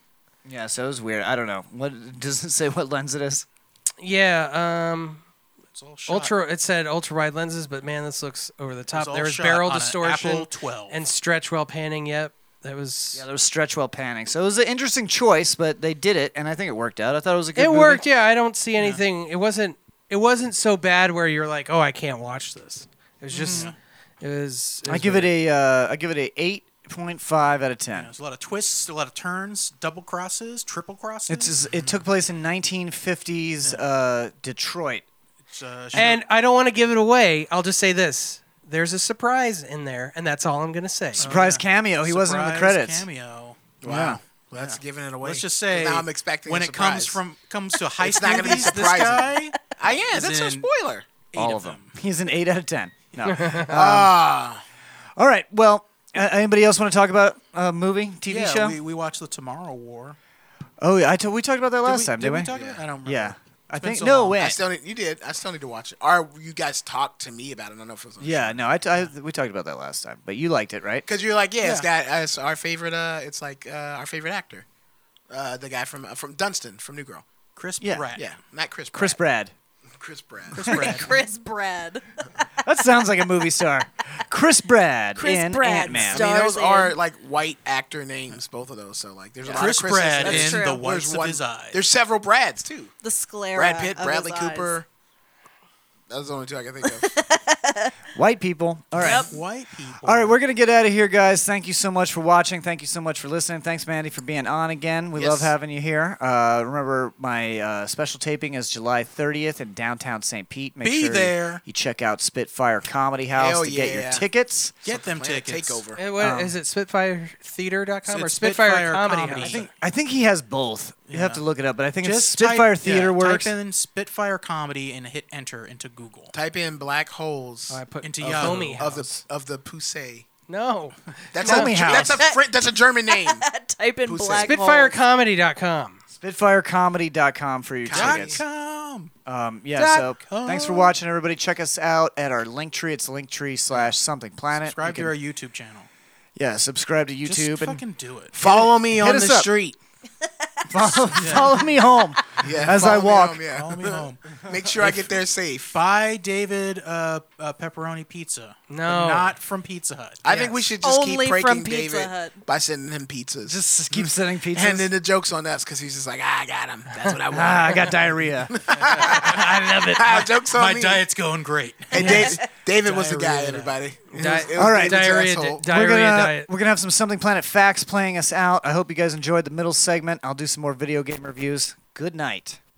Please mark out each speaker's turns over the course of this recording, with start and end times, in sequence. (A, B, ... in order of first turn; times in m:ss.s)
0:00.4-0:03.4 A
0:04.0-0:05.2 B
0:05.7-0:06.3 C
0:06.1-0:13.2 B
0:08.9-0:11.0 C
0:13.1-0:18.0 A
0:17.6-0:25.4 B
0:23.3-0:23.7 A
0:23.5-0:23.8 C
0:24.9-0:28.1 A
0:27.9-0:32.0 C
0:31.3-0:35.0 A
0:35.5-0:36.2 C
0:35.9-0:41.3 B
0:41.2-0:43.6 C
0:41.2-0:43.1 A
0:43.8-0:47.2 D
0:43.8-0:44.2 A
0:44.5-0:49.6 C
0:48.0-0:51.0 D
0:50.1-0:50.7 C
0:51.3-0:51.9 C
0:51.4-0:54.4 A
0:53.3-0:53.7 B
0:53.6-0:54.6 D
0:55.2-0:58.8 A
0:58.3-1:00.2 C
1:00.8-1:02.5 A
1:01.8-1:04.4 C
1:02.5-1:02.8 D
1:03.0-1:04.6 A
1:04.4-1:08.6 D
1:08.2-1:11.1 A
1:11.1-1:14.6 D
1:11.6-1:11.9 C
1:15.3-1:17.2 D
1:17.6-1:18.3 C
1:17.8-1:18.1 A
1:18.2-1:19.2 D
1:18.9-1:19.5 A
1:19.9-1:21.1 D
1:20.5-1:21.1 C
1:20.6-1:22.0 E
1:22.6-1:26.2 A
1:25.2-1:27.0 E
1:25.9-1:26.2 C
1:26.1-1:32.9 D
1:29.4-1:30.8 E
1:29.5-1:31.8 C
1:33.0-1:34.8 E
1:33.5-1:34.9 D
1:36.1-1:37.2 D
1:37.0-1:37.9 E
1:38.2-1:39.4 A
1:39.0-1:40.4 C
1:39.0-1:39.3 E
1:40.0-1:54.7 A
1:45.2-1:45.5 D
1:50.8-1:51.6 C
1:53.4-1:54.3 D
1:54.8-1:55.8 C
1:54.9-1:56.0 D
1:56.0-1:59.6 B
1:56.2-1:56.5 A
1:58.1-1:59.7 C
1:59.4-2:03.5 A
2:01.1-2:01.4 C
2:02.0-2:06.3 C
2:06.3-2:10.2 D
2:07.7-2:09.1 B
2:08.0-2:09.1 C
2:10.5-2:12.0 B
2:11.3-2:13.4 D
2:11.4-2:12.2 A
2:12.0-2:12.6 E
2:13.1-2:15.0 E
2:14.0-2:14.5 D
2:14.4-2:16.0 B
2:16.1-2:18.4 A
2:17.8-2:18.4 D
2:17.9-2:19.1 C
2:19.3-2:25.1 A
2:19.7-2:20.9 C
2:24.6-2:25.9 C
2:26.4-2:27.8 A
2:27.2-2:28.3 C
2:28.3-2:29.8 D
2:28.4-2:29.5 A
2:30.2-2:32.0 E
2:30.7-2:33.4 A
2:31.2-2:31.6 C
2:32.4-2:35.7 D
2:32.4-2:33.0 C
2:33.5-2:34.3 C
2:34.8-2:40.3 C
2:38.7-2:39.3 B
2:40.2-2:48.0 D
2:40.8-2:42.4 E
2:43.4-2:44.9 A
2:47.3-2:50.2 A
2:48.5-2:51.0 D
2:48.7-2:53.8 C
2:51.9-2:55.6 D
2:51.9-2:52.4 B
2:54.1-2:56.5 B
2:54.6-3:02.6 A